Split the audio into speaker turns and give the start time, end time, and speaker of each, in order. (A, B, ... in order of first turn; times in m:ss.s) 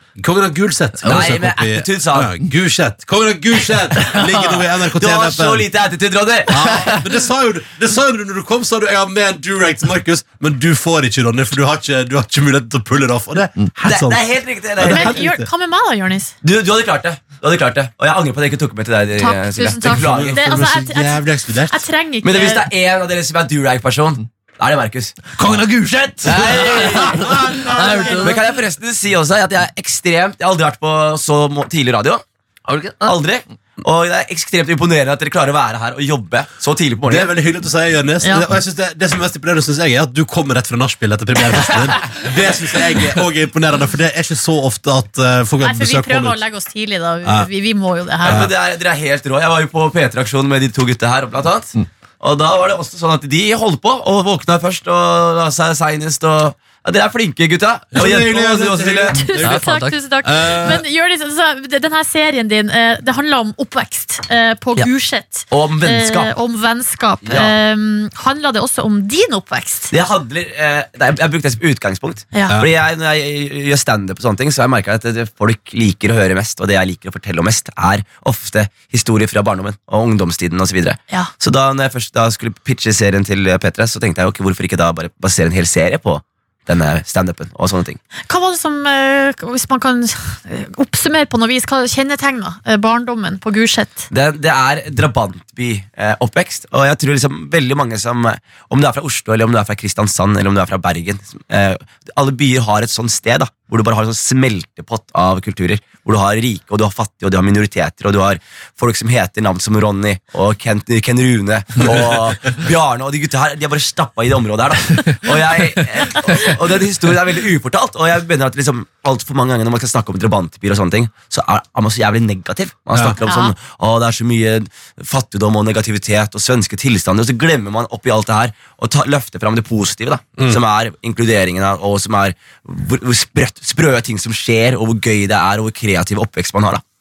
0:00.2-0:05.7 A
0:01.0-0:02.3 B
0:05.0-0:06.9 B
0:06.5-0:14.2 A
0:13.8-0:15.2 B
0:14.8-0:15.5 A
0:14.8-0:16.3 C
0:16.4-0:20.4 B
0:19.2-0:22.7 C
0:19.8-0:21.8 A
0:22.2-0:25.2 B
0:25.4-0:28.4 A
0:26.2-0:27.4 B
0:26.3-0:28.5 D
0:28.2-0:32.2 B
0:32.7-0:33.2 D
0:33.0-0:37.3 B
0:37.1-0:46.4 A
0:38.2-0:38.5 C
0:45.6-0:48.5 C
0:48.2-0:59.3 B
0:48.2-0:48.5 A
0:57.9-0:59.6 A
0:59.1-1:09.9 C
0:59.4-1:00.0 D
1:00.2-1:00.8 A
1:05.5-1:06.3 B
1:07.2-1:07.6 B
1:09.9-1:28.0 B
1:12.3-1:12.6 C
1:28.3-1:34.1 C
1:34.1-2:16.8 B
2:02.9-2:03.2 A
2:03.2-2:03.5 C